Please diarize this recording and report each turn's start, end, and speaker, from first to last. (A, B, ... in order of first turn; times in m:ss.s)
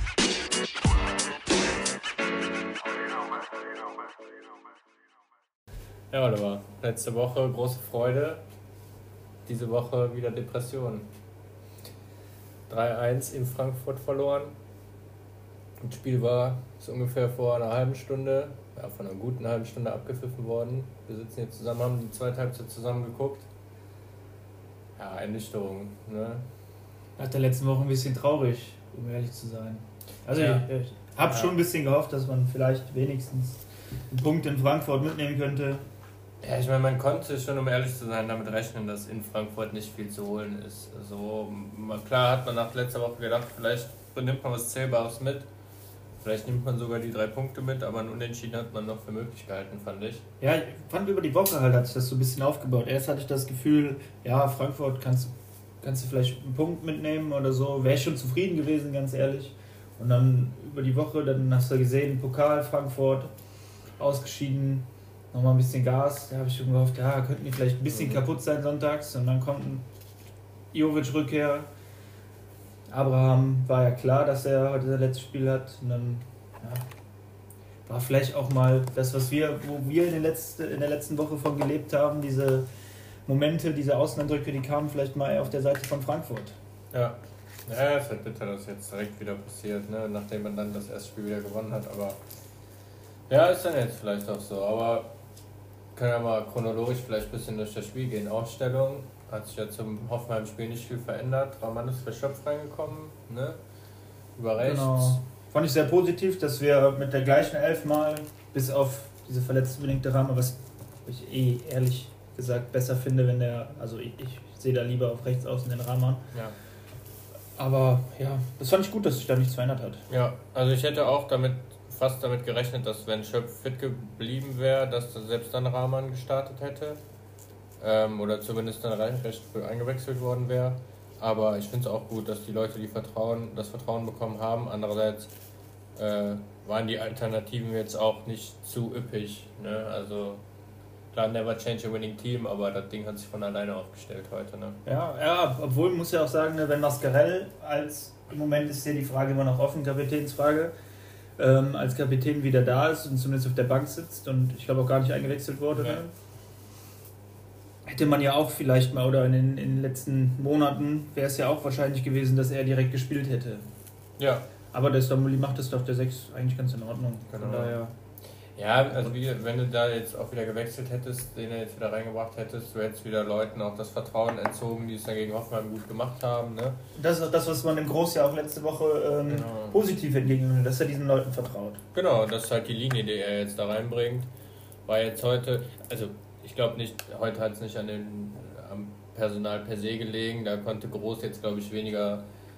0:06.1-0:08.4 A
0:09.5-0:11.1 A
0:12.7-0:14.5 A
0:15.8-0:23.5 A
0:25.0-0:26.4 A
0:27.2-0:35.8 B
0:30.3-0:30.6 A
0:36.4-0:45.5 A
0:46.2-0:50.2 A
0:50.4-1:03.3 B
1:04.0-1:09.9 B
1:07.9-1:08.2 A
1:10.7-1:11.7 B
1:12.9-1:16.8 B
1:17.9-1:22.7 B
1:23.3-1:26.6 B
1:26.9-1:32.2 A
1:33.3-1:35.1 A
1:36.0-1:43.6 A
1:44.4-1:45.2 A
1:44.6-1:56.3 B
1:57.6-2:00.0 B
2:00.1-2:07.0 A
2:07.8-2:15.3 A
2:16.0-2:20.4 A
2:21.1-2:24.8 A
2:24.9-2:30.7 B
2:31.4-2:36.1 B
2:37.8-2:43.7 B
2:44.2-2:44.4 A
2:44.7-2:47.9 B
2:47.3-2:47.8 A
2:48.6-2:56.8 A
2:57.0-3:01.8 B
2:59.3-2:59.8 A
3:01.9-3:04.3 A
3:04.9-3:12.2 A